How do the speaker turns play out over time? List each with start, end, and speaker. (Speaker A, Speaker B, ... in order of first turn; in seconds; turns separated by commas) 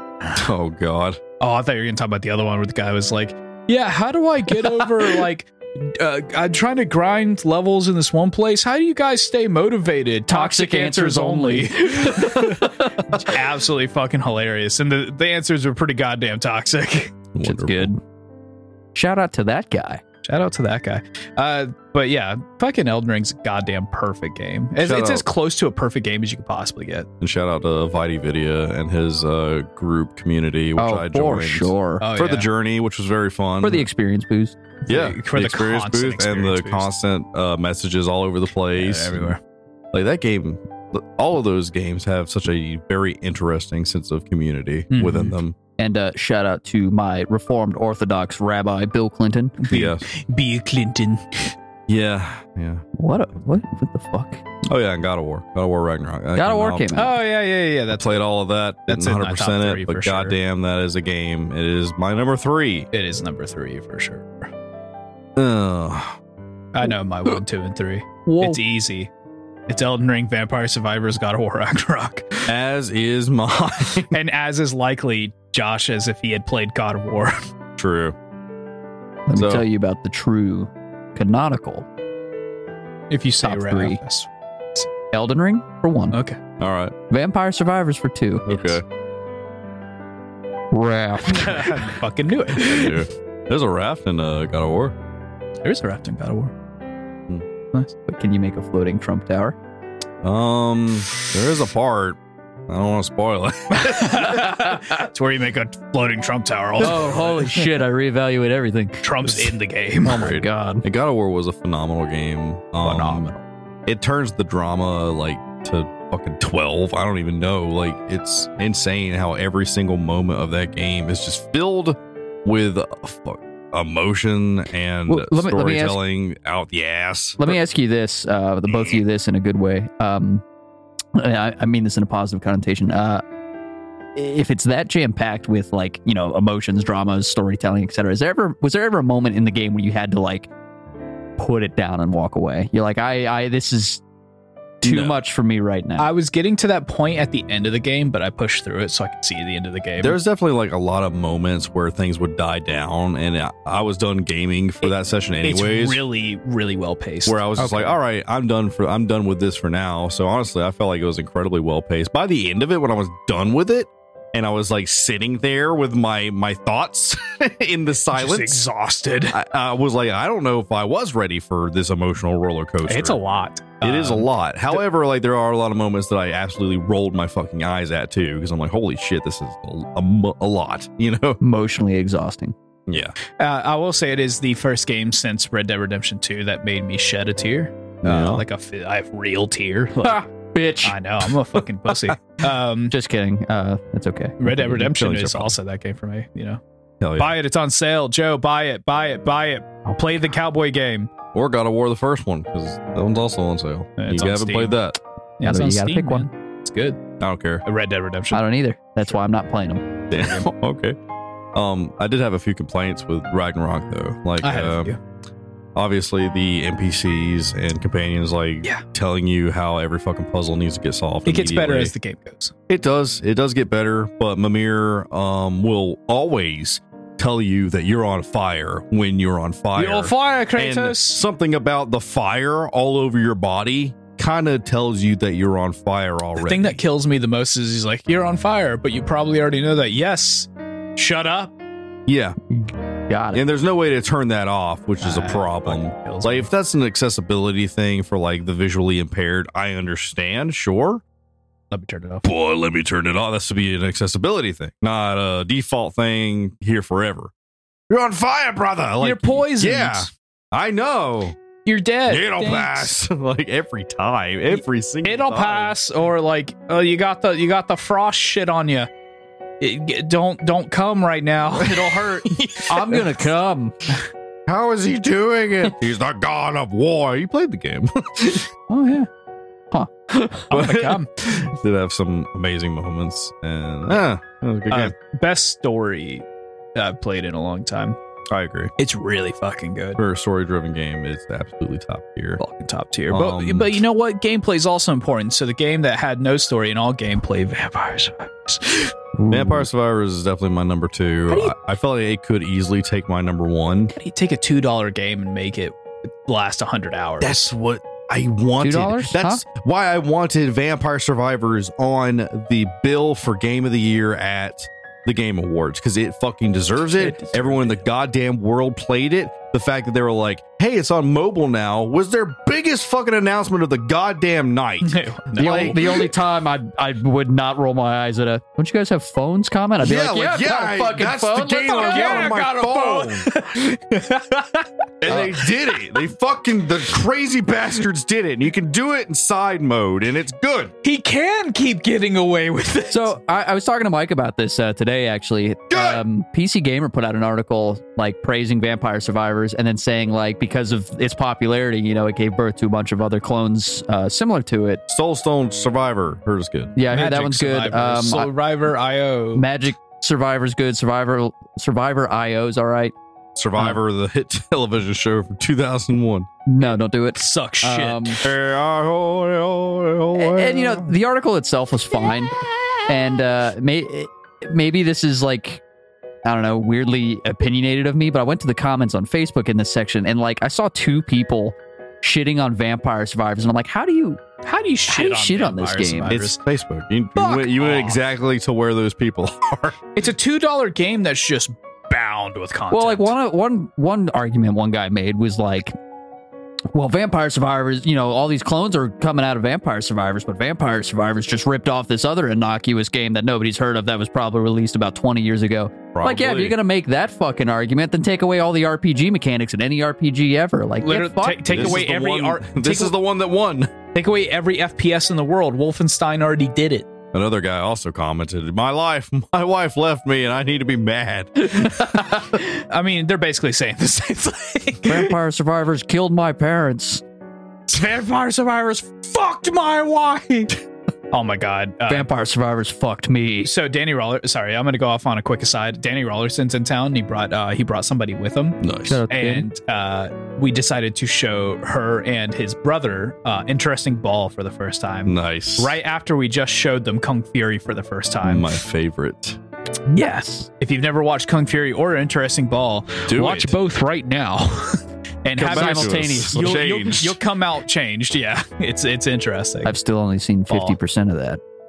Speaker A: 0.3-1.2, Speaker B: 1.4-17.2, Speaker C: 10.3-13.3, Speaker A: 17.3-17.9, Speaker C: 17.4-18.0, Speaker C: 18.9-20.0, Speaker B: 20.2-27.1, Speaker A: 24.8-25.2, Speaker A: 27.2-33.9, Speaker C: 30.8-32.0, Speaker B: 32.0-32.5, Speaker C: 33.6-34.6, Speaker B: 34.9-36.9, Speaker A: 34.9-39.4, Speaker B: 38.7-39.4, Speaker A: 39.9-45.5, Speaker B: 44.9-45.4, Speaker C: 45.8-49.6, Speaker B: 49.6-51.5, Speaker A: 49.7-50.0, Speaker A: 51.9-52.8, Speaker C: 52.9-54.4, Speaker A: 54.7-56.9, Speaker C: 56.4-57.2, Speaker B: 56.9-58.2, Speaker A: 57.9-62.9, Speaker B: 58.9-60.3, Speaker B: 62.9-64.5, Speaker A: 65.3-66.2, Speaker B: 66.7-69.1, Speaker C: 68.2-68.6, Speaker B: 69.7-72.5, Speaker A: 72.5-74.1, Speaker B: 74.1-77.4, Speaker A: 77.8-78.2, Speaker C: 79.3-81.8, Speaker A: 79.3-79.7, Speaker B: 83.1-84.9, Speaker C: 83.4-84.0, Speaker C: 85.1-86.2, Speaker B: 86.1-86.4, Speaker A: 86.6-86.9, Speaker C: 87.1-88.5, Speaker A: 88.5-88.8, Speaker C: 90.7-91.9, Speaker B: 91.3-93.0, Speaker A: 92.5-95.0, Speaker B: 95.6-96.5, Speaker C: 98.1-99.5, Speaker A: 100.2-104.4, Speaker B: 103.7-107.8, Speaker C: 104.3-104.9, Speaker C: 106.8-109.5, Speaker B: 109.0-110.2, Speaker C: 110.0-110.8, Speaker A: 110.1-113.3, Speaker B: 112.8-113.3, Speaker A: 113.8-127.6, Speaker C: 125.1-126.0, Speaker C: 127.4-130.4, Speaker A: 128.7-129.0, Speaker C: 131.1-133.2, Speaker C: 134.2-140.5, Speaker C: 141.4-144.0, Speaker C: 144.8-146.1, Speaker A: 144.8-145.2, Speaker B: 146.0-150.2, Speaker A: 150.0-156.0, Speaker B: 155.4-157.6, Speaker A: 157.2-168.6, Speaker C: 157.6-157.9, Speaker B: 168.1-169.4, Speaker A: 169.3-173.2, Speaker B: 172.8-174.8, Speaker A: 173.8-181.4, Speaker C: 181.4-182.5, Speaker A: 182.9-183.1, Speaker B: 183.4-190.2, Speaker A: 188.0-188.4, Speaker C: 190.0-191.0, Speaker B: 190.8-192.9, Speaker C: 192.9-195.0, Speaker B: 194.4-196.6, Speaker A: 194.7-195.5, Speaker A: 197.0-197.4, Speaker B: 197.2-201.1, Speaker A: 201.3-205.0, Speaker B: 204.0-204.8, Speaker B: 205.4-207.0, Speaker C: 205.4-206.3, Speaker A: 207.2-207.6, Speaker B: 207.6-208.4, Speaker C: 208.3-209.9, Speaker A: 210.1-211.0, Speaker A: 211.5-214.9, Speaker B: 214.4-215.0, Speaker A: 215.7-221.9, Speaker B: 221.2-222.5, Speaker A: 222.7-236.8, Speaker B: 229.8-231.2, Speaker B: 236.4-241.5, Speaker A: 242.1-242.3, Speaker C: 242.5-243.4, Speaker A: 243.3-251.0, Speaker B: 245.0-246.5, Speaker B: 251.7-252.2, Speaker A: 252.2-257.3, Speaker A: 257.9-261.4, Speaker B: 259.0-260.1, Speaker B: 261.6-262.9, Speaker A: 262.1-265.8, Speaker B: 264.6-268.9, Speaker B: 269.6-272.4, Speaker A: 271.5-273.2, Speaker C: 272.6-273.9, Speaker A: 274.4-278.5, Speaker B: 278.7-279.1, Speaker C: 279.7-280.4, Speaker B: 280.5-281.1, Speaker A: 280.5-284.9, Speaker B: 284.7-286.2, Speaker B: 286.7-288.0, Speaker A: 288.3-288.7, Speaker B: 288.8-290.0, Speaker A: 290.0-292.4, Speaker B: 292.4-298.9, Speaker A: 293.1-293.8, Speaker C: 299.1-299.7, Speaker A: 299.3-303.9, Speaker B: 301.3-301.5, Speaker B: 303.9-307.4, Speaker A: 307.2-326.1, Speaker C: 308.6-309.4, Speaker B: 316.9-317.7, Speaker B: 324.8-326.1, Speaker C: 325.4-332.4, Speaker A: 329.8-333.3, Speaker B: 331.8-335.8, Speaker A: 335.0-340.7, Speaker C: 335.1-335.3, Speaker B: 340.8-343.1, Speaker C: 342.9-354.8, Speaker A: 345.7-346.0, Speaker A: 354.9-356.7, Speaker C: 356.8-358.3, Speaker B: 356.9-359.5, Speaker C: 359.3-362.9, Speaker A: 363.3-366.3, Speaker C: 366.4-368.2, Speaker B: 367.1-368.2, Speaker A: 368.2-370.9, Speaker C: 370.1-372.3, Speaker C: 372.9-375.6, Speaker C: 376.2-384.2, Speaker B: 384.4-386.4, Speaker C: 384.9-386.2, Speaker A: 386.1-389.8, Speaker B: 387.2-388.0, Speaker B: 389.9-393.1, Speaker C: 392.7-395.7, Speaker C: 396.7-411.7, Speaker A: 405.9-406.6, Speaker B: 410.8-412.9, Speaker A: 411.5-413.7, Speaker B: 413.9-416.9, Speaker A: 417.1-422.2, Speaker B: 422.2-425.1, Speaker C: 424.9-427.0, Speaker B: 427.7-430.5, Speaker B: 431.1-432.1, Speaker C: 431.9-433.5, Speaker B: 433.4-448.5, Speaker A: 438.6-439.0, Speaker C: 438.9-439.5, Speaker A: 445.1-445.8, Speaker A: 448.2-449.4, Speaker C: 449.9-450.5, Speaker B: 449.9-459.7, Speaker A: 453.1-453.6, Speaker A: 455.4-457.2, Speaker C: 455.4-456.5, Speaker C: 459.6-461.4, Speaker B: 460.5-460.8